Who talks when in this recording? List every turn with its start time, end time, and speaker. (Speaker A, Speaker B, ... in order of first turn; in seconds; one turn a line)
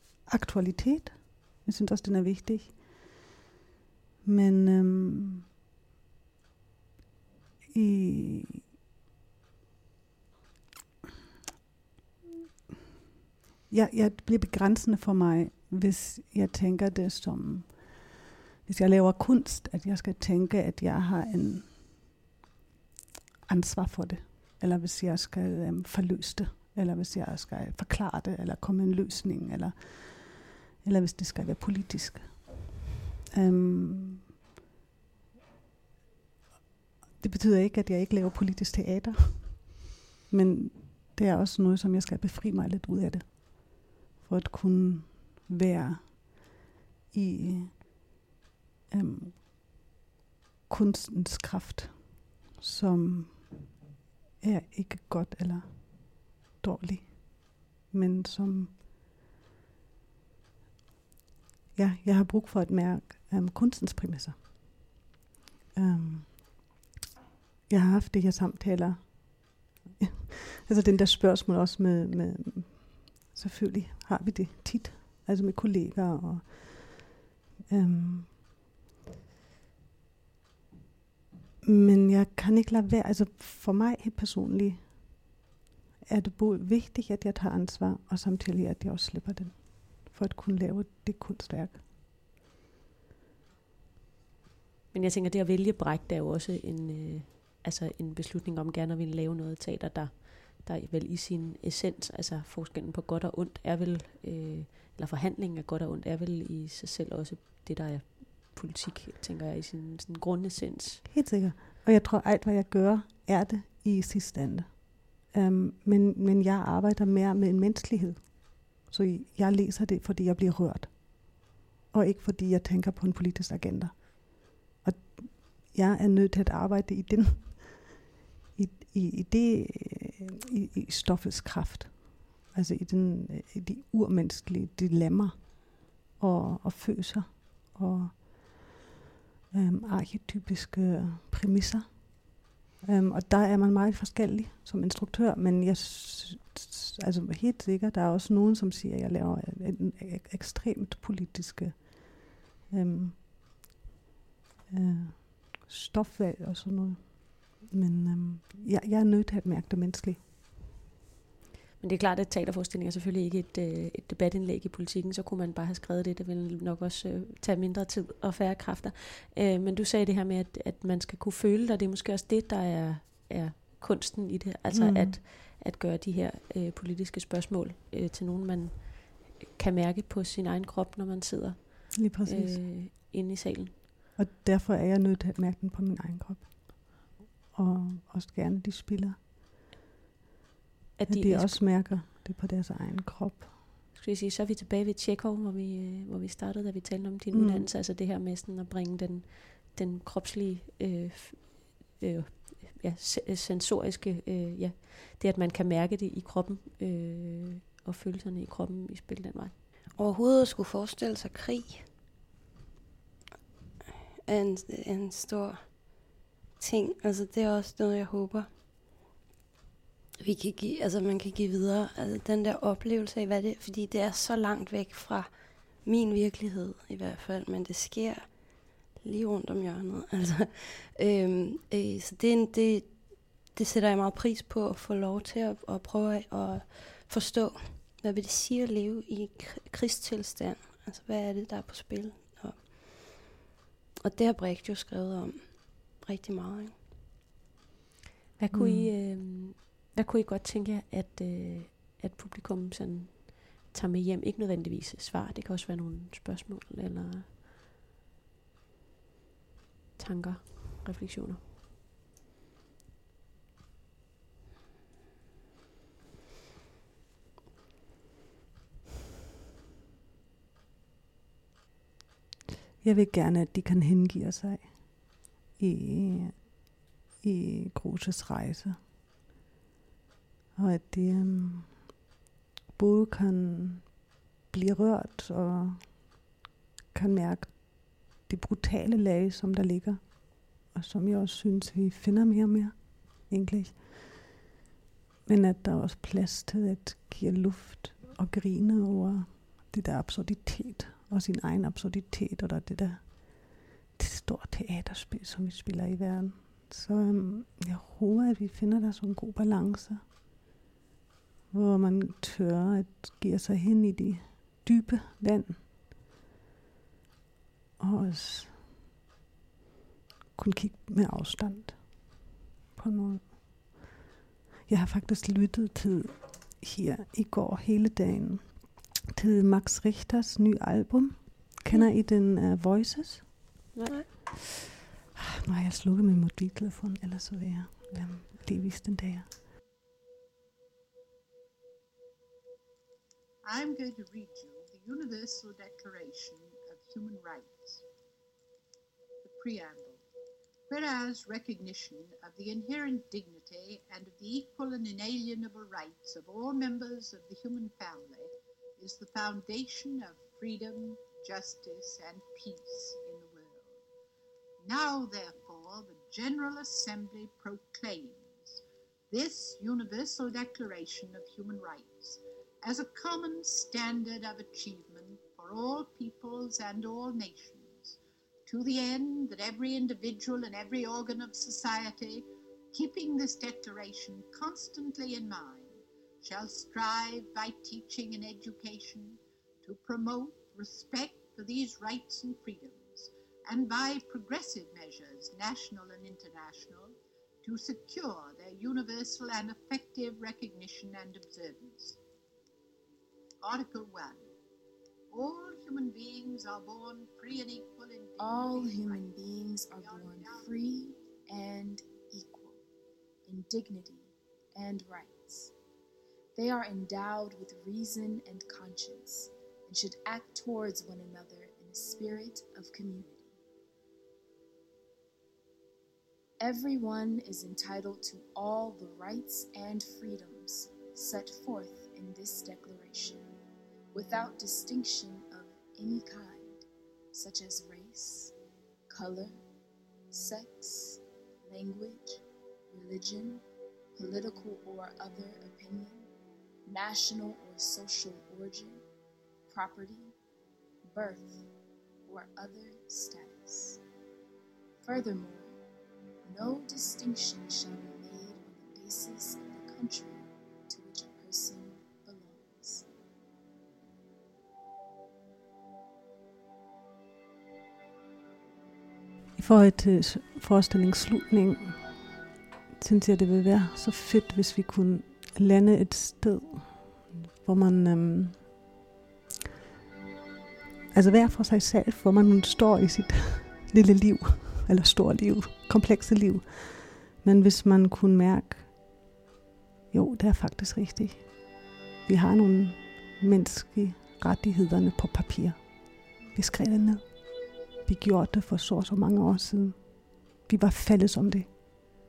Speaker A: 0.3-3.1
Speaker A: 4.2-5.5
Speaker A: 7.7-8.7
Speaker A: 13.7-18.1
Speaker A: 18.6-22.0
Speaker A: 23.5-32.6
Speaker A: 33.3-34.3
Speaker A: 37.2-46.6
Speaker A: 47.1-47.8
Speaker A: 48.9-49.5
Speaker A: 50.7-53.7
Speaker A: 54.4-58.8
Speaker A: 61.8-65.0
Speaker A: 65.7-66.8
Speaker A: 67.7-77.1
Speaker A: 77.7-78.4
Speaker A: 81.6-85.3
Speaker A: 86.0-91.8
Speaker B: 94.9-111.1
Speaker A: 111.1-128.0
Speaker A: 128.6-138.7
Speaker A: 139.5-153.6
Speaker A: 154.7-160.2
Speaker B: 161.8-183.7
Speaker A: 174.7-175.2
Speaker A: 181.9-182.6
Speaker A: 184.2-189.2
Speaker B: 191.0-191.6
Speaker A: 191.1-193.5
Speaker B: 193.9-209.5
Speaker A: 197.3-197.7
Speaker C: 210.0-211.9
Speaker C: 214.3-218.5
Speaker C: 220.2-243.3
Speaker C: 244.0-246.8
Speaker B: 248.4-257.3
Speaker A: 248.5-248.9
Speaker B: 260.0-261.4
Speaker A: 272.8-276.6
Speaker A: 277.2-278.8
Speaker A: 280.6-281.9
Speaker A: 282.8-286.2
Speaker A: 286.9-294.3
Speaker A: 295.3-310.0
Speaker A: 311.5-315.6
Speaker A: 317.8-318.6
Speaker A: 320.4-322.2
Speaker A: 322.8-323.9
Speaker A: 324.7-333.5
Speaker B: 333.7-334.0
Speaker A: 335.2-339.3
Speaker D: 343.4-347.9
Speaker D: 349.2-350.0
Speaker D: 350.7-363.8
Speaker D: 364.6-402.0
Speaker D: 403.4-404.3
Speaker D: 405.1-409.1
Speaker E: 408.2-412.6
Speaker D: 409.8-410.5
Speaker E: 413.3-415.5
Speaker E: 416.4-423.4
Speaker E: 426.4-433.3
Speaker E: 433.9-438.3
Speaker E: 438.9-439.4
Speaker E: 440.1-443.4
Speaker E: 444.0-446.1
Speaker E: 446.7-448.8
Speaker E: 449.5-450.1
Speaker E: 450.9-451.5
Speaker E: 452.1-453.8
Speaker E: 454.8-455.6
Speaker E: 456.2-462.9
Speaker A: 469.4-472.0
Speaker A: 472.8-478.6
Speaker A: 480.9-488.8
Speaker A: 489.9-491.4
Speaker A: 492.1-495.6
Speaker A: 496.3-497.1
Speaker A: 497.9-501.5